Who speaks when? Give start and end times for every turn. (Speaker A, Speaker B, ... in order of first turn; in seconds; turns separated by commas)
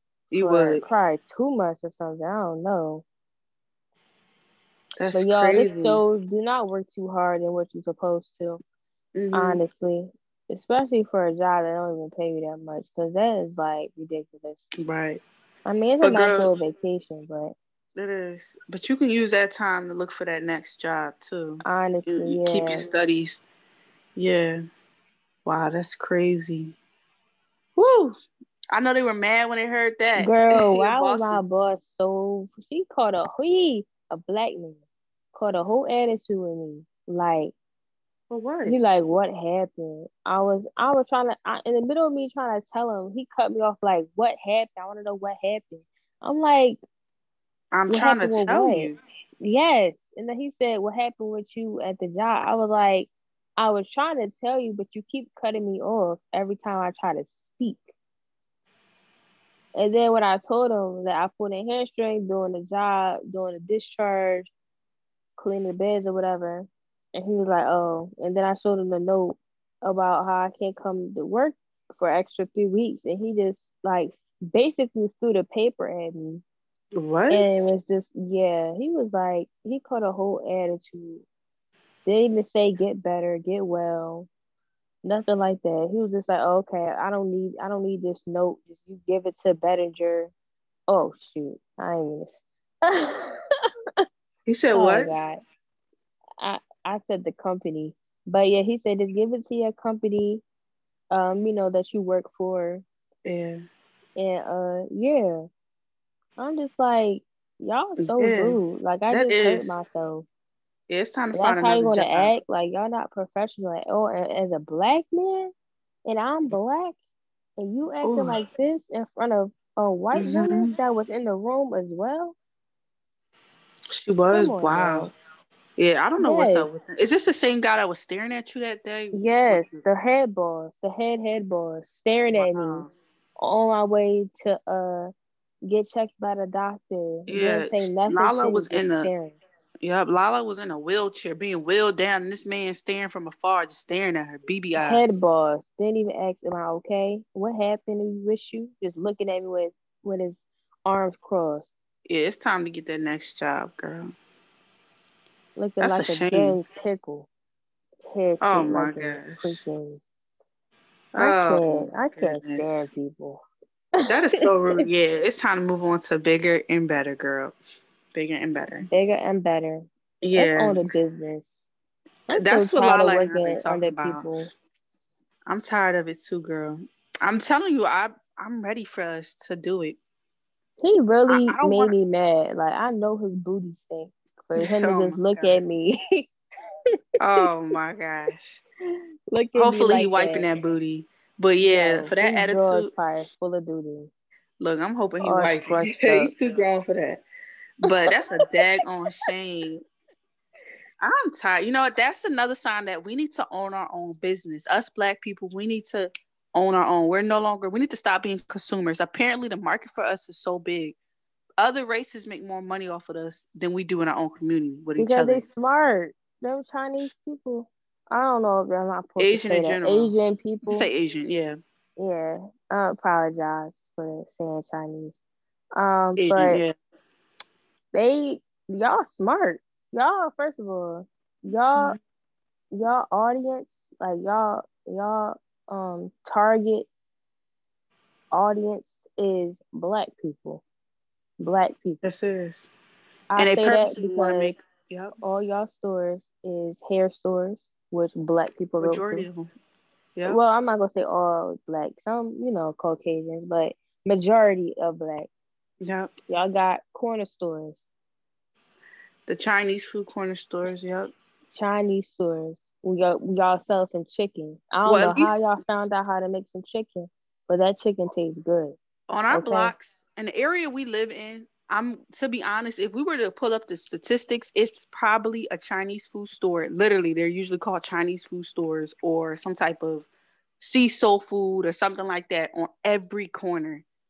Speaker A: 0.3-0.8, Speaker B: 0.4-3.0, Speaker A: 5.0-6.0, Speaker B: 5.1-8.6, Speaker A: 9.1-9.6, Speaker B: 9.3-14.6, Speaker A: 14.8-15.2, Speaker B: 15.7-17.5, Speaker A: 16.0-16.5, Speaker A: 17.9-23.4, Speaker B: 21.6-22.9, Speaker A: 24.1-24.6, Speaker A: 25.4-26.8, Speaker A: 27.8-28.2, Speaker A: 28.7-31.5, Speaker B: 30.2-34.8, Speaker B: 35.3-37.5, Speaker A: 38.3-38.8, Speaker B: 38.6-46.8, Speaker A: 47.7-49.0, Speaker B: 47.9-57.8, Speaker B: 59.8-64.5, Speaker B: 65.4-76.4, Speaker A: 76.9-77.7, Speaker B: 77.3-81.2, Speaker B: 82.0-84.3, Speaker B: 85.0-90.3, Speaker B: 90.9-93.4, Speaker A: 94.5-95.1, Speaker B: 94.7-95.4, Speaker B: 96.4-100.4, Speaker B: 101.1-102.8, Speaker A: 103.2-103.6, Speaker B: 104.2-105.5, Speaker B: 106.4-110.3, Speaker A: 108.0-109.8, Speaker A: 110.9-112.4, Speaker B: 111.3-115.5, Speaker B: 116.1-117.0, Speaker B: 117.6-122.4, Speaker A: 118.0-118.4, Speaker A: 120.1-120.7, Speaker A: 123.9-125.1, Speaker B: 124.3-125.1, Speaker A: 125.8-129.8, Speaker B: 126.2-126.7, Speaker B: 129.1-132.9, Speaker A: 132.3-132.9, Speaker B: 133.4-135.1, Speaker B: 135.6-139.4, Speaker A: 137.3-139.1, Speaker A: 139.8-145.2, Speaker B: 144.8-151.7, Speaker A: 152.1-154.1, Speaker B: 155.6-157.3, Speaker A: 155.8-156.6, Speaker B: 158.1-160.0, Speaker A: 158.4-159.6, Speaker A: 161.1-162.9, Speaker B: 161.2-163.4, Speaker A: 164.0-167.5, Speaker A: 168.1-168.9, Speaker B: 168.9-171.5, Speaker A: 170.2-170.8, Speaker B: 172.3-174.5, Speaker A: 172.3-174.3, Speaker A: 175.5-180.0, Speaker B: 180.8-186.3, Speaker A: 181.3-181.9, Speaker A: 184.6-185.6, Speaker A: 187.2-188.6, Speaker B: 189.3-190.5, Speaker A: 189.5-192.9, Speaker B: 191.6-194.1, Speaker A: 194.6-197.2, Speaker B: 195.2-196.3, Speaker A: 197.8-199.8, Speaker A: 201.0-211.0, Speaker A: 211.6-215.4, Speaker B: 215.0-220.9, Speaker A: 219.2-220.1, Speaker A: 220.6-221.6, Speaker B: 222.0-225.2, Speaker B: 225.8-226.6, Speaker A: 226.2-226.7, Speaker B: 227.9-232.0, Speaker B: 232.7-236.9, Speaker B: 238.3-240.6, Speaker B: 241.4-242.0, Speaker A: 242.0-242.7, Speaker B: 243.3-244.6, Speaker A: 243.4-245.2, Speaker B: 245.2-249.3, Speaker A: 248.8-249.5, Speaker B: 250.2-255.3, Speaker A: 255.8-256.1, Speaker B: 256.3-257.8, Speaker A: 259.3-261.1, Speaker B: 261.5-268.8, Speaker A: 264.9-265.8, Speaker A: 269.1-280.1, Speaker B: 269.3-269.7, Speaker A: 280.6-283.9